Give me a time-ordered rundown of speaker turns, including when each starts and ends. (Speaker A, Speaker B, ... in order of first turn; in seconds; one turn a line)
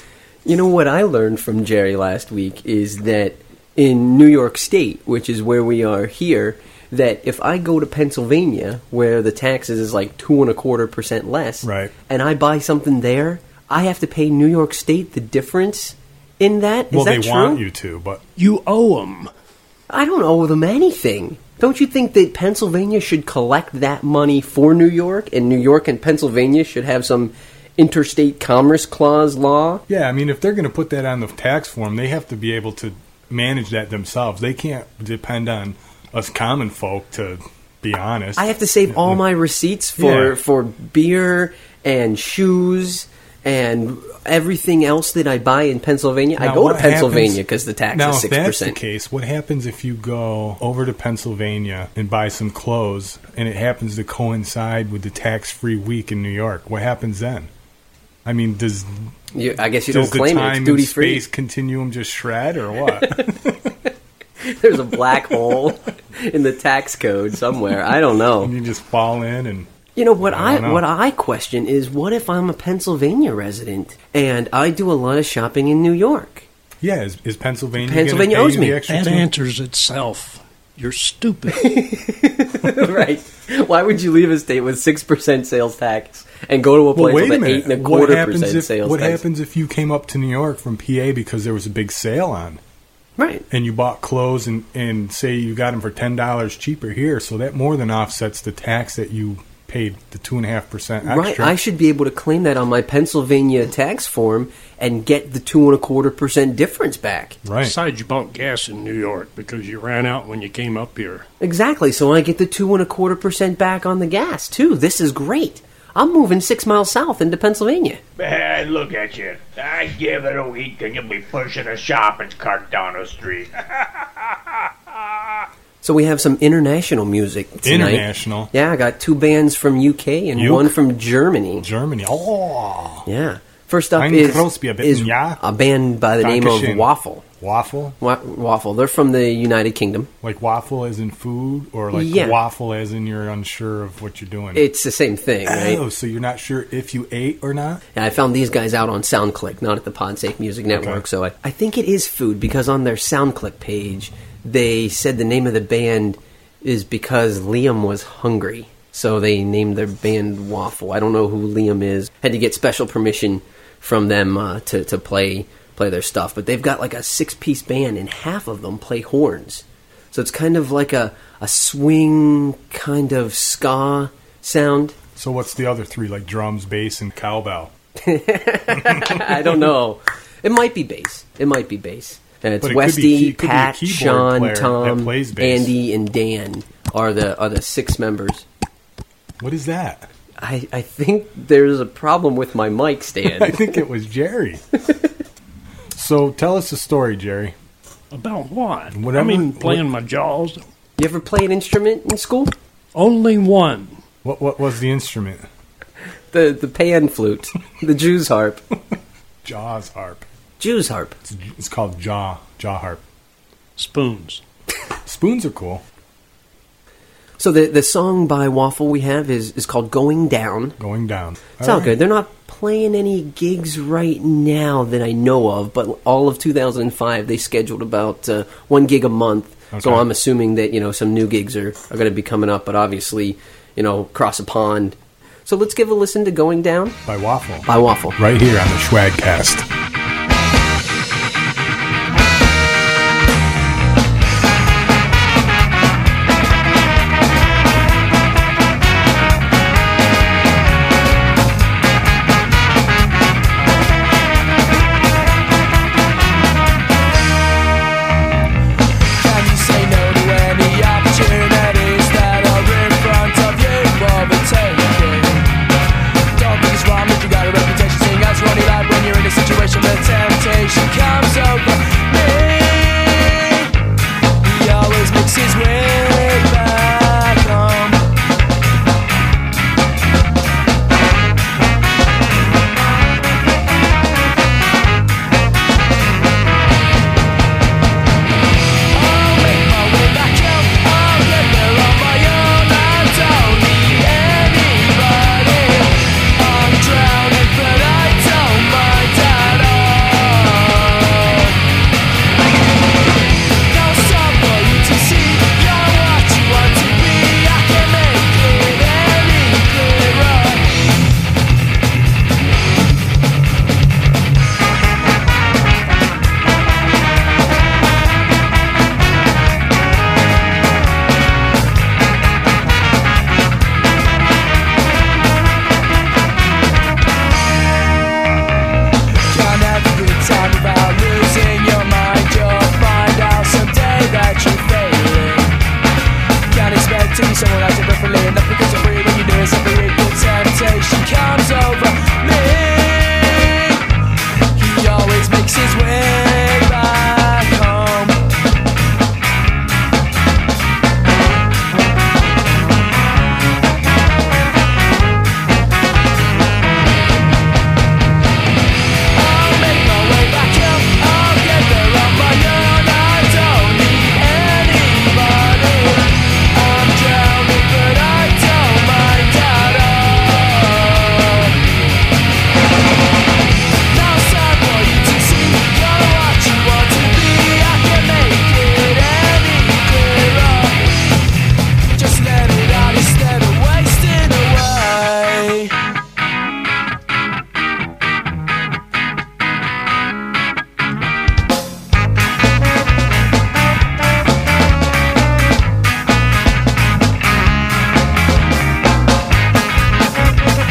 Speaker A: 0.4-17.6
Speaker B: 11.6-11.9
Speaker B: 16.9-18.2
Speaker C: 18.4-19.3
Speaker A: 19.9-29.8
Speaker B: 29.9-39.2
Speaker A: 38.4-48.8
Speaker B: 40.0-40.4
Speaker B: 46.4-47.4
Speaker B: 47.9-57.5
Speaker B: 58.2-59.0
Speaker A: 59.3-61.2
Speaker B: 59.9-63.7
Speaker A: 64.4-68.5
Speaker B: 68.4-69.7
Speaker A: 70.0-76.5
Speaker B: 70.2-70.8
Speaker B: 76.8-79.3
Speaker A: 77.8-78.8
Speaker C: 78.9-81.7
Speaker A: 81.6-89.2
Speaker B: 86.9-92.6
Speaker A: 93.2-93.4
Speaker B: 93.5-101.5
Speaker A: 101.0-107.4
Speaker B: 107.4-107.8
Speaker C: 107.6-111.2
Speaker A: 111.4-118.0
Speaker D: 118.2-123.5
Speaker A: 125.8-131.7
Speaker B: 127.6-128.5
Speaker B: 130.3-130.8
Speaker B: 131.6-133.1
Speaker A: 133.1-137.2
Speaker B: 133.9-135.4
Speaker B: 136.2-136.9
Speaker B: 137.4-137.9
Speaker A: 138.0-140.1
Speaker B: 140.2-144.7
Speaker A: 141.9-142.4
Speaker A: 144.5-145.8
Speaker B: 145.4-147.8
Speaker A: 147.9-175.0
Speaker B: 150.7-151.0
Speaker B: 175.2-177.7
Speaker A: 178.0-188.4
Speaker B: 178.7-179.5
Speaker B: 182.6-185.7
Speaker B: 189.4-190.1
Speaker A: 190.4-193.7
Speaker B: 193.2-194.6
Speaker B: 195.9-197.5
Speaker C: 198.1-200.6
Speaker B: 198.9-199.8
Speaker A: 201.0-202.5
Speaker C: 202.9-204.0
Speaker B: 204.2-205.5
Speaker A: 206.3-208.6
Speaker B: 209.4-210.3
Speaker A: 210.6-211.2
Speaker B: 211.2-213.0
Speaker C: 213.8-214.4
Speaker B: 215.0-215.8
Speaker A: 217.4-220.8
Speaker B: 220.8-221.9
Speaker A: 221.6-237.0
Speaker B: 229.7-230.1
Speaker B: 237.0-239.7
Speaker A: 237.7-238.2
Speaker E: 259.2-265.5
Speaker E: 266.3-273.6
Speaker E: 274.4-278.1
Speaker E: 288.9-301.6
Speaker E: 303.7-310.7
Speaker E: 329.3-335.6
Speaker E: 336.5-343.8
Speaker E: 344.6-348.2
Speaker E: 359.1-371.6
Speaker E: 373.9-380.8
Speaker E: 381.9-385.7